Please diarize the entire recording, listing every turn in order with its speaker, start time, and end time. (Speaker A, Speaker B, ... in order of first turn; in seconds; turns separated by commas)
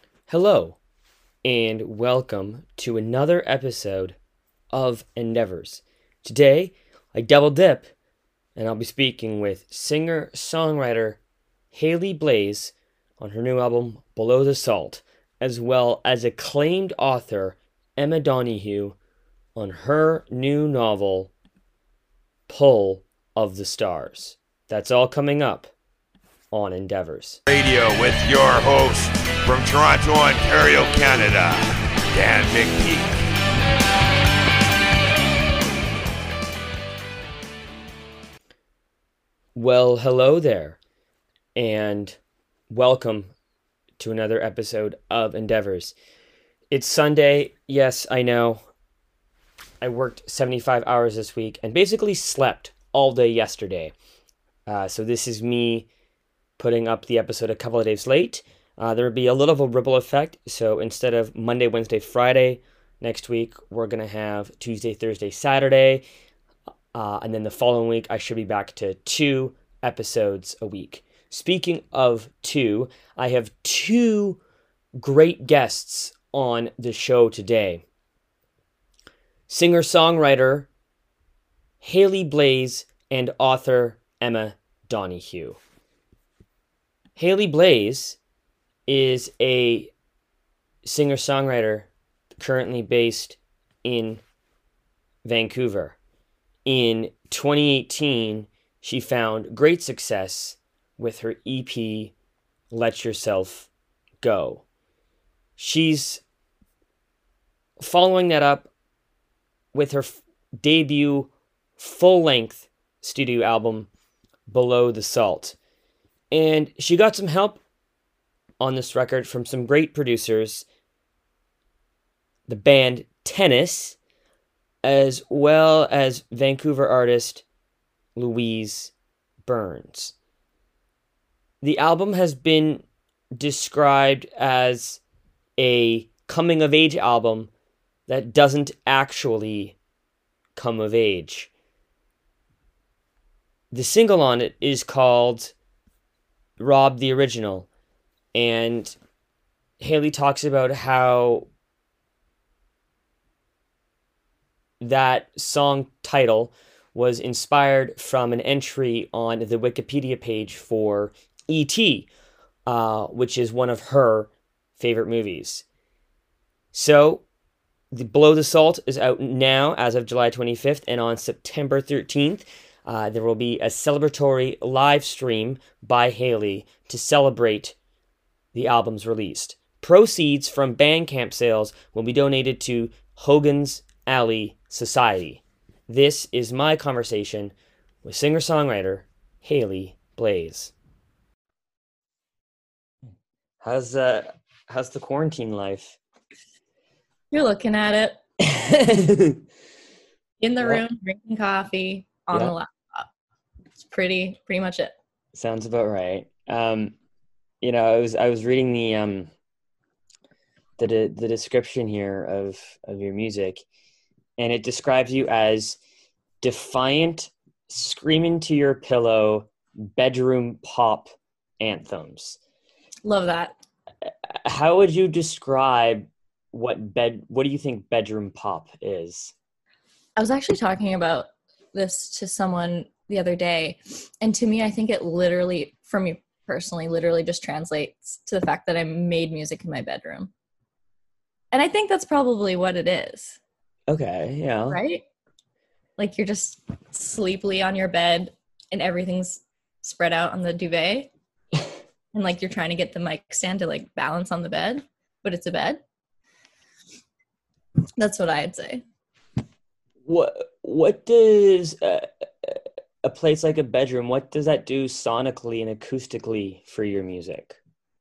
Speaker A: 0.3-0.8, Speaker A: 1.4-4.2, Speaker A: 4.7-7.9, Speaker A: 8.6-11.2, Speaker A: 11.7-18.9, Speaker A: 19.6-21.3, Speaker A: 22.5-25.7, Speaker A: 26.5-27.4, Speaker B: 27.5-33.1, Speaker A: 39.5-40.8, Speaker A: 41.5-42.2, Speaker A: 42.7-43.3, Speaker A: 44.0-45.9, Speaker A: 46.7-48.7, Speaker A: 49.8-53.9, Speaker A: 54.7-55.9, Speaker A: 56.6-66.0, Speaker A: 66.9-74.4, Speaker A: 75.0-77.8, Speaker A: 79.5-80.7, Speaker A: 81.8-85.6, Speaker A: 87.2-88.2, Speaker A: 88.9-89.9, Speaker A: 90.8-94.2, Speaker A: 95.2-96.0, Speaker A: 96.7-102.1, Speaker A: 102.7-103.7, Speaker A: 104.2-104.6, Speaker A: 105.6-106.2, Speaker A: 107.8-108.7, Speaker A: 109.7-113.9, Speaker A: 114.5-115.6, Speaker A: 116.3-117.6, Speaker A: 118.6-120.7, Speaker A: 122.5-124.0, Speaker A: 124.8-127.4, Speaker A: 128.2-128.9, Speaker A: 129.4-130.1, Speaker A: 131.6-132.8, Speaker A: 133.4-135.0, Speaker A: 135.6-137.5, Speaker A: 138.1-139.8, Speaker A: 140.6-141.5, Speaker A: 143.7-145.5, Speaker A: 146.6-147.7, Speaker A: 148.3-149.0, Speaker A: 149.8-151.5, Speaker A: 154.8-162.1, Speaker A: 162.7-165.6, Speaker A: 166.7-167.2, Speaker A: 167.9-177.8, Speaker A: 178.5-190.7, Speaker A: 193.6-196.0, Speaker C: 197.3-198.2, Speaker A: 198.4-199.4, Speaker C: 200.4-203.1, Speaker C: 203.8-204.9, Speaker A: 205.3-206.9, Speaker A: 207.6-209.3, Speaker A: 210.8-213.6, Speaker A: 214.4-215.8, Speaker A: 216.4-222.4, Speaker C: 223.1-223.6, Speaker A: 224.1-229.3, Speaker C: 230.2-240.3, Speaker C: 241.5-243.4, Speaker A: 243.9-244.8, Speaker C: 244.7-245.0, Speaker C: 246.0-251.1, Speaker C: 252.1-255.8, Speaker C: 258.0-258.8, Speaker A: 260.1-267.6